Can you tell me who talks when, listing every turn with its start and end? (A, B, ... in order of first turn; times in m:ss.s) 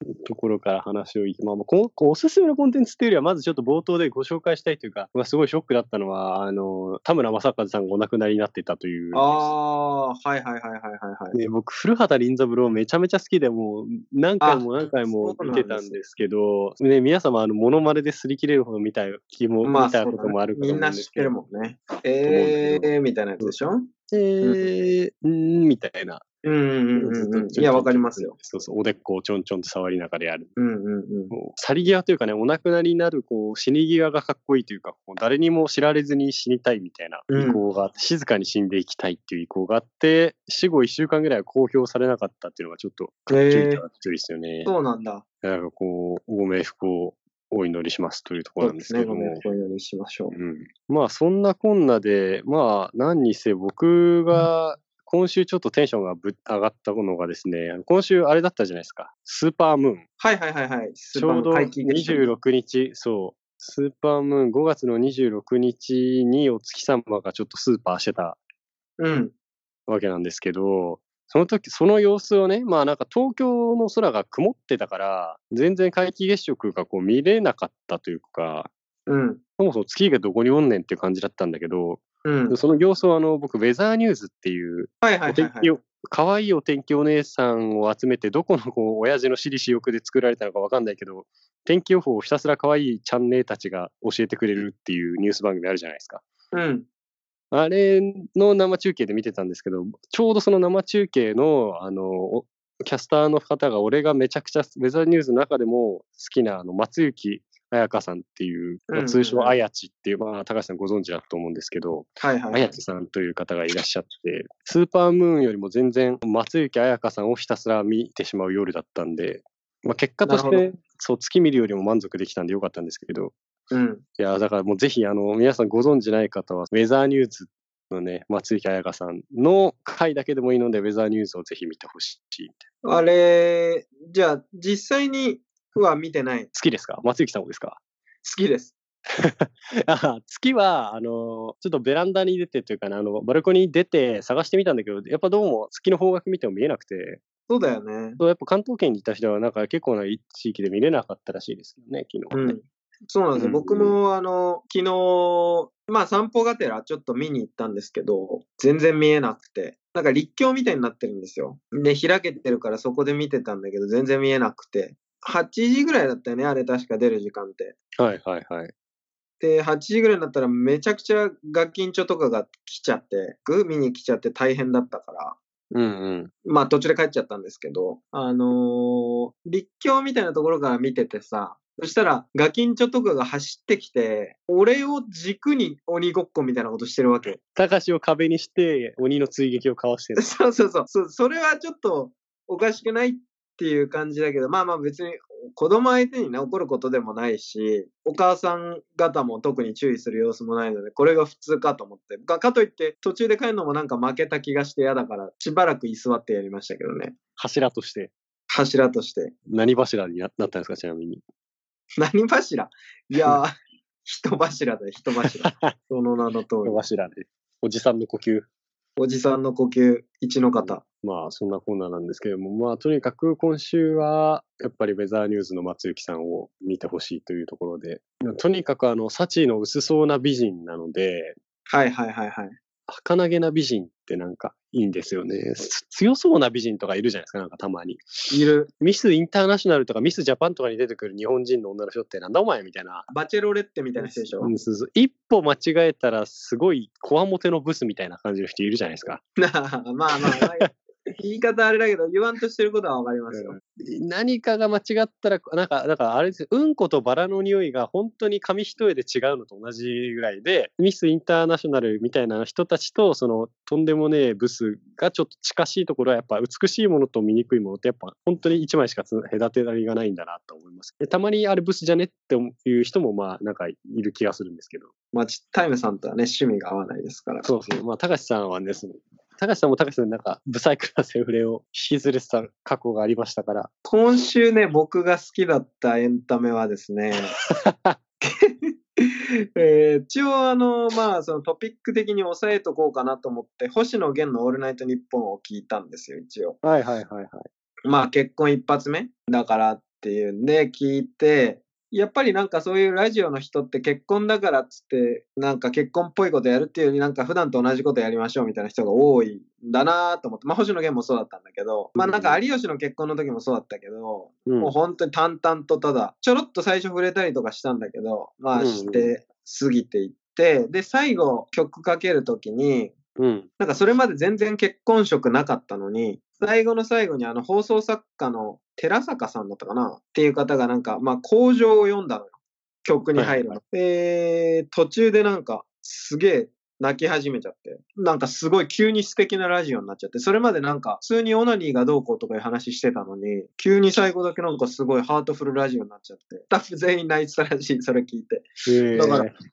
0:00.2-0:09.5 A
0:09.1-0:11.4 B
0:11.3-0:21.3 A
0:14.4-0:16.0 B
0:19.6-0:23.9 B
0:22.2-0:23.5 A
0:24.1-0:26.2 A
0:26.4-0:28.4 B
0:27.0-0:30.5 A
0:30.6-0:31.3 B
0:31.3-0:44.7 A
0:37.3-0:37.6 B
0:43.3-0:43.8 B
0:44.6-0:45.2 B
0:45.4-0:49.4 A
0:48.6-0:50.3 B
0:50.3-1:00.0 A
1:00.2-1:02.3 B
1:01.1-1:08.4 A
1:09.0-1:09.3 B
1:09.9-1:18.7 A
1:19.1-1:19.4 B
1:19.6-1:36.2 A
1:22.2-1:22.6 B
1:25.0-1:25.7 B
1:36.5-1:36.9 B
1:37.5-2:03.3 A
1:48.9-1:49.5 B
1:52.2-1:52.8 B
2:00.2-2:00.6 B
2:03.7-2:04.0 B
2:04.2-2:12.6 A
2:12.8-2:16.5 B
2:16.5-2:17.8 A
2:18.2-2:18.7 B
2:19.1-2:27.2 A
2:27.5-2:28.2 B
2:28.2-2:32.6 A
2:32.3-2:47.7 B
2:33.4-2:34.0 A
2:48.0-2:48.7 A
2:49.4-2:55.4 B
2:55.7-2:56.3 A
2:56.4-3:07.4 B
3:07.4-3:10.4 A
3:10.2-3:27.2 B
3:27.4-3:28.1 A
3:28.5-3:29.3 B
3:29.5-3:31.2 A
3:32.0-3:33.5 B
3:34.0-3:36.8 B
3:35.2-3:35.7 A
3:36.6-3:38.5 A
3:39.0-3:40.8 B
3:40.6-3:51.4 A
3:51.7-3:52.5 B
3:52.9-4:03.0 A
3:58.3-3:58.7 B
4:03.1-4:04.5 B
4:04.0-4:09.2 A
4:09.4-4:13.6 B
4:10.3-4:10.7 A
4:13.3-4:34.9 A
4:35.1-4:37.5 B
4:37.4-4:43.7 A
4:43.8-4:47.3 B
4:47.3-4:48.0 A
4:48.2-4:56.6 B
4:56.6-4:57.4 A
4:57.8-5:22.9 B
5:12.0-5:12.4 A
5:14.5-5:14.7 A
5:18.5-5:19.1 A
5:23.2-5:23.5 A
5:23.6-5:49.3 B
5:33.2-5:33.6 A
5:48.6-5:49.3 A